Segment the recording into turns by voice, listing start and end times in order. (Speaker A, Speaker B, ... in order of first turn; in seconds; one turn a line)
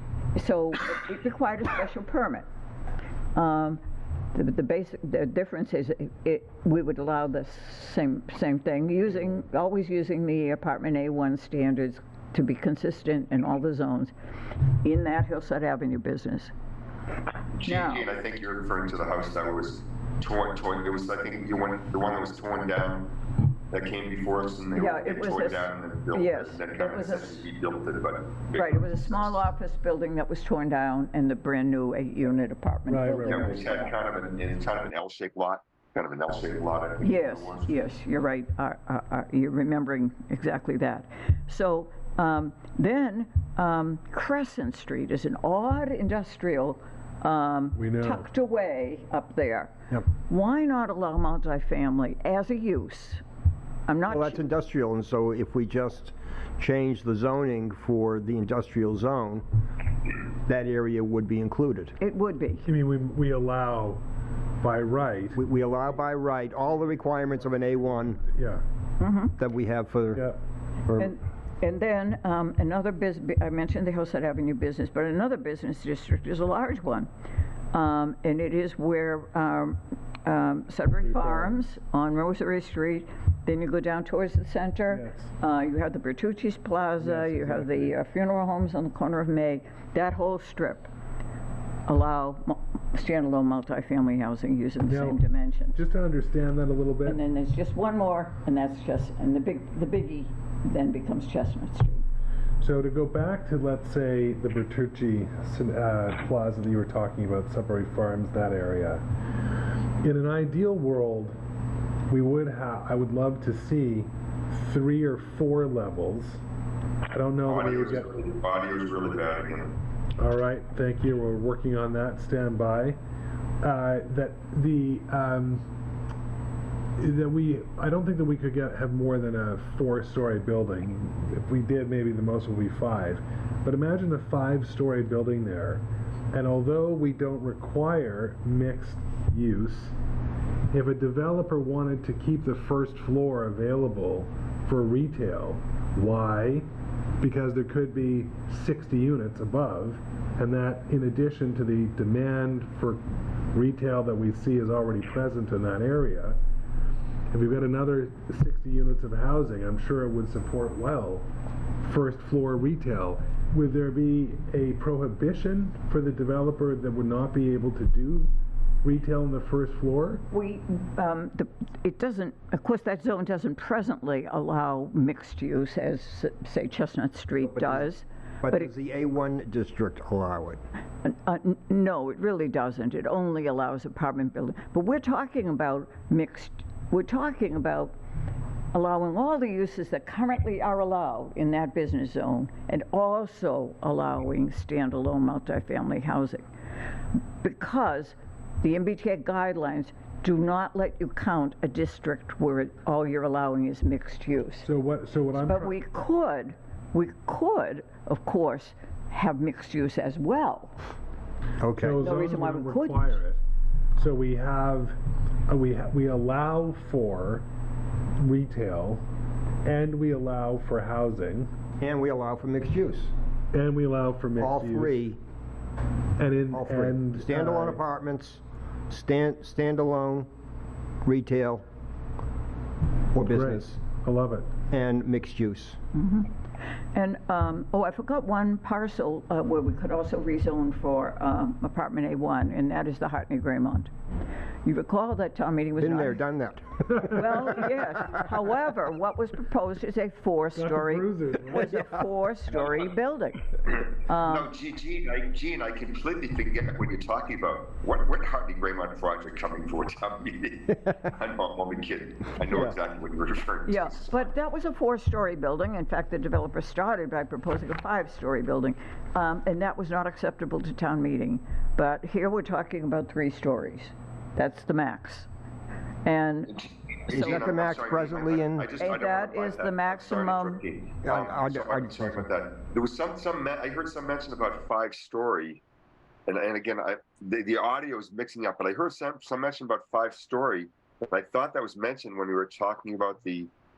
Speaker A: 0.3-2.5
Speaker A: 3.3-3.8
Speaker A: 4.3-14.1
Speaker A: 14.8-16.5
Speaker B: 17.6-23.1
Speaker A: 17.6-18.0
Speaker B: 23.7-29.4
Speaker A: 24.7-27.4
Speaker A: 28.6-33.6
Speaker C: 32.9-33.6
Speaker B: 33.2-37.7
Speaker A: 37.0-53.2
Speaker C: 47.8-48.2
Speaker A: 53.9-54.4
Speaker D: 54.1-59.5
Speaker D: 60.5-62.0
Speaker A: 62.0-62.7
Speaker C: 62.6-64.0
Speaker C: 64.6-65.4
Speaker D: 65.3-68.2
Speaker C: 68.3-68.6
Speaker A: 69.0-69.3
Speaker D: 69.4-70.2
Speaker D: 70.8-71.1
Speaker A: 70.9-77.1
Speaker A: 77.7-90.9
Speaker C: 81.1-81.5
Speaker C: 84.9-85.3
Speaker C: 87.0-87.9
Speaker A: 91.8-95.8
Speaker C: 94.9-95.2
Speaker C: 95.7-97.2
Speaker A: 97.0-102.0
Speaker C: 102.6-109.0
Speaker C: 110.0-111.3
Speaker C: 112.1-116.4
Speaker C: 117.1-118.1
Speaker B: 117.4-119.7
Speaker C: 120.2-123.0
Speaker C: 123.6-125.6
Speaker C: 127.0-139.9
Speaker C: 140.7-146.7
Speaker C: 147.2-156.4
Speaker C: 157.3-161.2
Speaker C: 161.8-168.3
Speaker C: 168.8-170.2
Speaker A: 170.3-178.7
Speaker D: 177.5-177.9
Speaker D: 178.4-180.6
Speaker A: 181.0-187.9
Speaker A: 188.7-196.5
Speaker A: 197.4-204.7
Speaker C: 204.6-205.8
Speaker A: 205.4-210.8
Speaker D: 211.6-212.0
Speaker C: 211.8-213.4
Speaker A: 212.0-213.2
Speaker C: 213.9-215.0
Speaker C: 215.5-217.4
Speaker C: 218.2-219.0
Speaker C: 219.6-221.5
Speaker D: 221.8-223.1
Speaker C: 223.5-225.0
Speaker D: 224.4-225.2
Speaker C: 226.2-227.8
Speaker D: 226.5-230.3
Speaker D: 231.0-231.6
Speaker D: 233.1-233.8
Speaker C: 233.2-234.5
Speaker D: 234.7-235.8
Speaker A: 235.9-236.3
Speaker A: 236.9-243.9
Speaker A: 244.6-246.2
Speaker D: 245.8-247.2
Speaker C: 247.0-247.7
Speaker A: 247.0-254.5
Speaker C: 250.5-251.9
Speaker B: 253.7-264.2
Speaker D: 262.5-262.8
Speaker A: 263.6-275.3
Speaker A: 276.0-277.5
Speaker B: 276.5-285.6
Speaker D: 277.1-278.7
Speaker A: 278.8-280.6
Speaker D: 281.0-282.3
Speaker B: 286.3-293.5